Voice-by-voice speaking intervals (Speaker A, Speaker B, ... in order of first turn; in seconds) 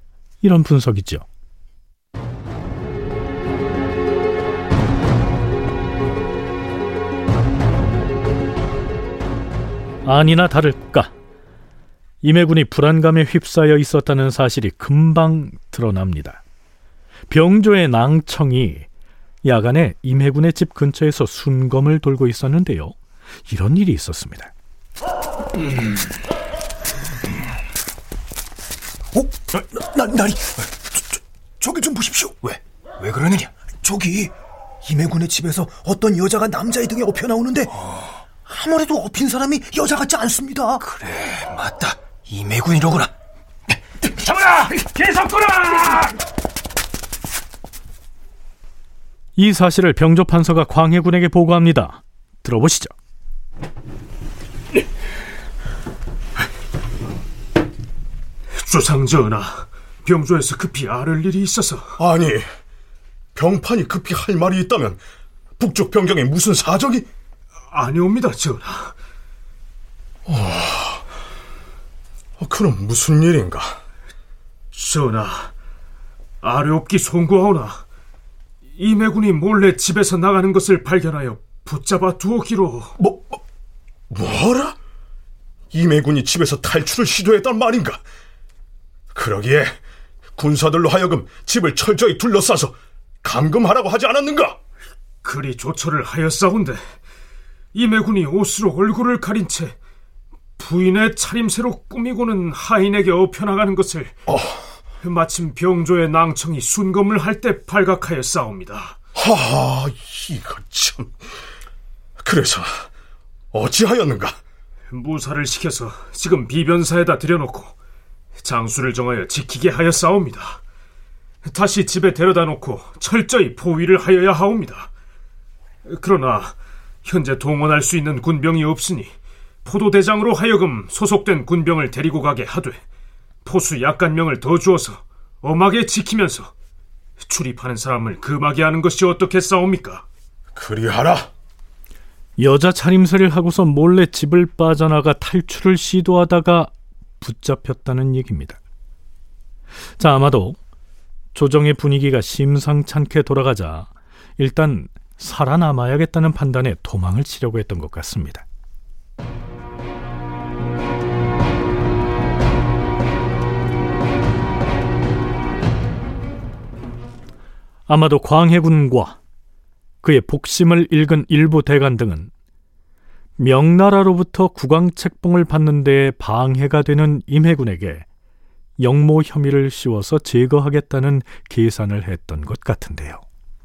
Speaker A: 0.4-1.2, 10.1-11.1, 12.2-16.4, 17.3-18.9, 19.4-22.9, 23.5-24.5, 49.4-52.9, 142.4-148.6, 150.0-150.6, 151.3-158.4, 167.9-169.2, 170.0-172.3, 173.4-178.1, 178.8-183.2
Speaker B: 29.2-30.5, 31.6-34.3, 34.8-37.7, 38.5-40.8, 44.4-46.1
Speaker C: 33.0-33.4, 41.4-43.1
Speaker D: 58.6-61.9, 67.7-68.9, 74.7-75.5, 76.4-77.8, 78.8-82.9, 95.2-96.8, 97.7-99.7, 100.6-104.1, 105.0-109.0, 114.9-117.7, 118.4-120.6, 121.5-124.9, 125.9-126.5, 127.1-129.1, 129.6-132.8, 133.4-136.5, 137.2-140.0
Speaker E: 62.0-62.4, 63.4-65.0, 65.6-67.1, 70.3-71.0, 72.4-73.8, 83.0-83.4, 84.1-84.8, 85.7-88.0, 89.1-89.8, 90.4-94.6, 104.3-104.6, 109.2-111.1, 112.2-112.9, 113.5-114.4, 140.6-141.3